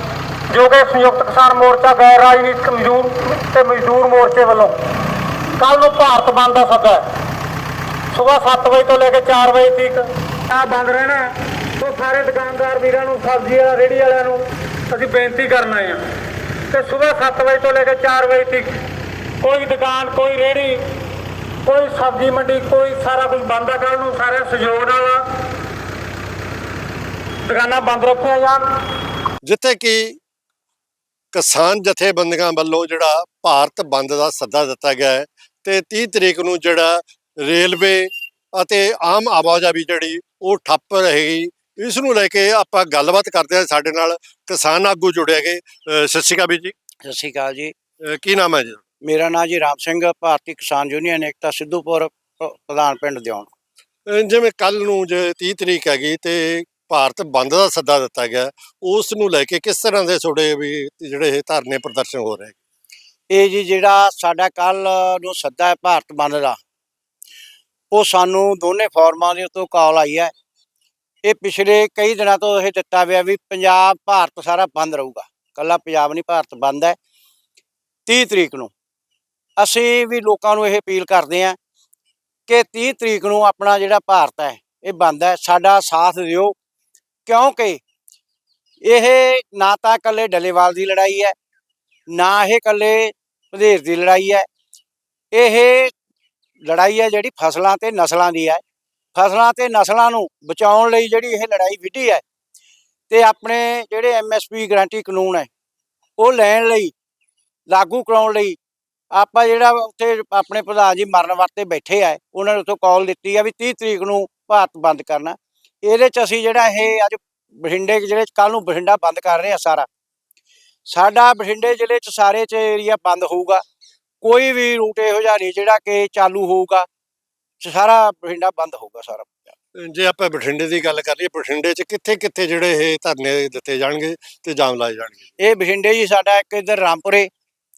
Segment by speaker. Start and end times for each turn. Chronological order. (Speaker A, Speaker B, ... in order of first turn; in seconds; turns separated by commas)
Speaker A: 0.5-4.8, Speaker A: 5.6-7.1, Speaker A: 8.1-16.0, Speaker A: 16.7-18.7, Speaker A: 19.4-20.8, Speaker A: 21.6-25.2, Speaker A: 27.4-28.6, Speaker B: 29.4-30.2, Speaker B: 31.3-46.7, Speaker C: 47.0-47.7, Speaker B: 48.0-48.8, Speaker C: 49.0-53.5, Speaker B: 54.1-62.5, Speaker C: 63.3-66.6, Speaker C: 67.9-70.3, Speaker C: 71.2-77.0, Speaker C: 78.0-78.7, Speaker C: 79.6-81.5, Speaker C: 82.5-86.5, Speaker C: 87.2-87.8, Speaker C: 88.8-91.3, Speaker C: 92.1-94.5, Speaker C: 95.3-95.9, Speaker C: 96.7-98.6, Speaker C: 99.1-102.2, Speaker C: 103.1-105.5, Speaker C: 106.2-106.9, Speaker C: 107.7-108.6, Speaker C: 109.1-119.9, Speaker C: 120.9-123.6, Speaker C: 124.2-126.9, Speaker C: 127.6-129.5, Speaker B: 129.8-135.2, Speaker C: 135.4-137.3